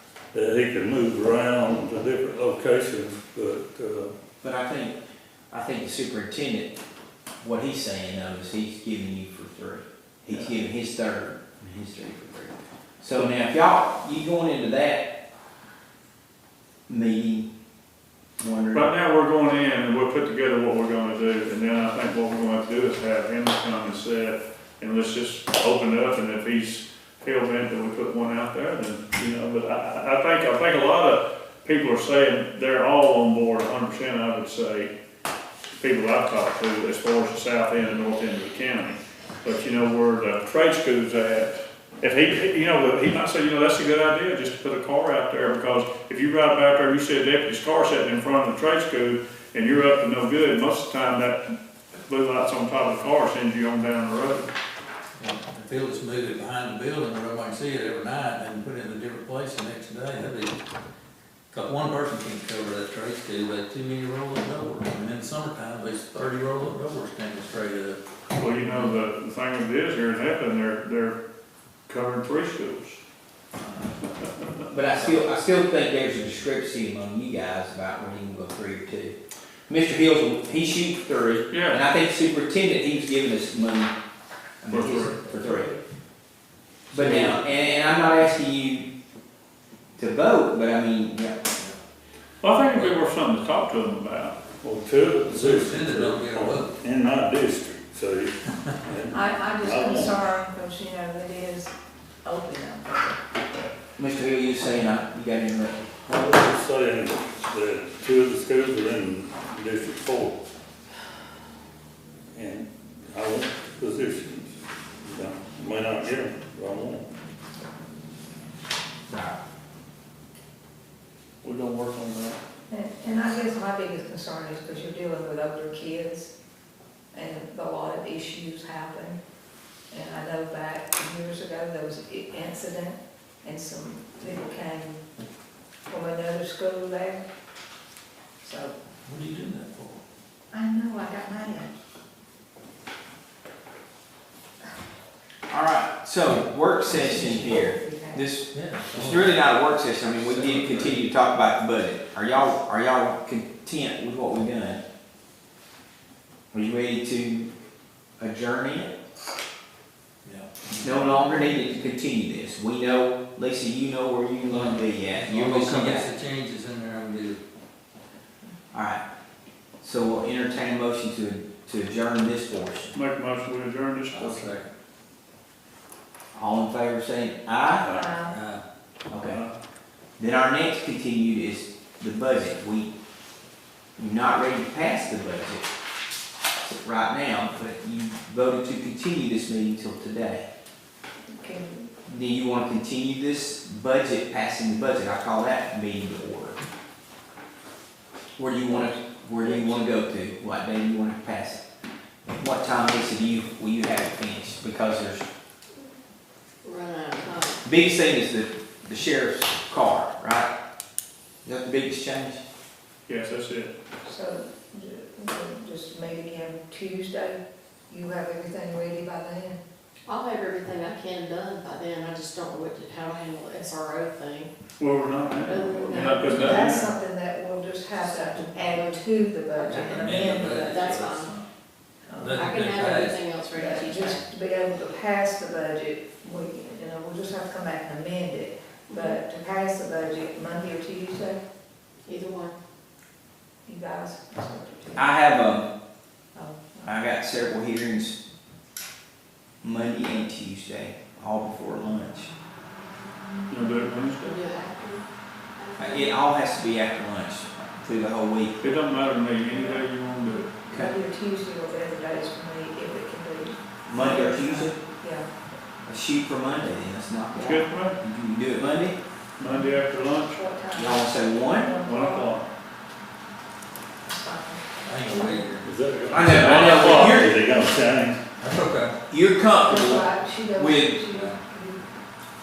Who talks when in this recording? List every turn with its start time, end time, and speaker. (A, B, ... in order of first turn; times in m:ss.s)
0:00.3-0:04.1 A
0:04.4-0:05.0 B
0:05.5-0:06.7 B
0:07.4-0:15.1 B
0:16.9-0:17.5 B
0:18.4-0:18.9 B
0:18.7-0:34.9 C
0:35.8-0:51.4 C
0:52.1-0:54.5 C
0:55.2-1:00.5 D
1:01.5-1:08.8 D
1:08.4-1:11.2 C
1:11.9-1:13.0 C
1:13.6-1:14.0 B
1:14.7-1:19.1 B
1:14.8-1:15.2 C
1:19.7-1:23.9 B
1:21.5-1:21.8 C
1:24.6-1:25.7 B
1:24.7-1:25.1 C
1:25.3-1:25.8 E
1:26.9-1:28.9 B
1:30.0-1:31.4 B
1:32.4-1:34.4 C
1:34.6-1:40.2 A
1:35.3-1:36.8 D
1:39.1-1:41.7 E
1:42.2-1:43.2 E
1:44.0-1:45.8 B
1:46.0-1:50.4 A
1:52.3-1:57.1 A
1:59.1-1:59.4 B
2:01.4-2:02.4 C
2:02.7-2:06.3 E
2:07.1-2:09.2 E
2:09.9-2:15.0 E
2:15.9-2:17.2 E
2:18.4-2:18.7 E
2:19.0-2:20.0 D
2:20.5-2:21.7 E
2:25.5-2:34.8 B
2:26.8-2:28.2 E
2:28.5-2:29.4 D
2:30.2-2:31.0 D
2:36.5-2:37.5 B
2:38.2-2:38.9 B
2:40.2-2:41.0 D
2:40.8-2:46.0 B
2:40.9-2:41.7 E
2:44.5-2:47.4 D
2:48.7-2:49.0 B
2:49.8-2:52.9 B
2:52.9-2:54.5 C
2:54.1-2:54.7 D
2:56.3-2:57.8 B
2:57.8-2:58.4 E
2:58.2-2:58.6 D
2:59.1-2:59.4 B
2:59.2-2:59.5 C
3:00.2-3:02.9 B
3:04.0-3:05.7 B
3:06.6-3:10.4 B
3:11.3-3:11.9 E
3:12.0-3:16.6 B
3:18.4-3:21.6 B
3:22.3-3:25.2 B
3:26.6-3:27.6 F
3:27.6-3:30.5 B
3:31.4-3:32.4 B
3:33.1-3:33.7 C
3:34.0-3:39.6 E
3:40.0-3:44.5 F
3:44.8-3:46.9 C
3:45.5-3:46.6 F
3:45.9-3:50.8 E
3:48.2-3:49.0 F
3:49.5-3:51.3 F
3:49.7-3:51.4 D
3:52.1-3:52.4 E
3:52.1-3:53.3 D
3:52.4-3:54.2 F
3:53.5-4:01.4 E
3:58.9-3:59.2 F
4:02.0-4:02.5 F
4:03.6-4:05.1 E
4:05.0-4:05.7 B
4:06.3-4:06.9 E
4:06.8-4:08.2 B
4:09.6-4:12.3 B
4:13.5-4:14.4 C
4:14.3-4:15.0 F
4:15.6-4:16.1 F
4:15.8-4:18.6 B
4:18.6-4:20.4 C
4:19.4-4:25.3 E
4:23.8-4:24.8 B
4:25.8-4:29.0 B
4:27.4-4:28.0 C
4:29.4-4:30.4 C
4:29.5-4:32.4 E
4:30.7-4:31.8 B
4:31.8-4:32.5 C
4:34.0-4:35.5 E
4:34.8-4:36.7 D
4:35.6-4:38.2 A
4:36.1-4:37.4 B
4:36.2-4:37.2 C
4:38.4-4:38.9 D
4:39.1-4:41.0 B
4:39.6-4:41.9 E
4:41.1-4:41.4 D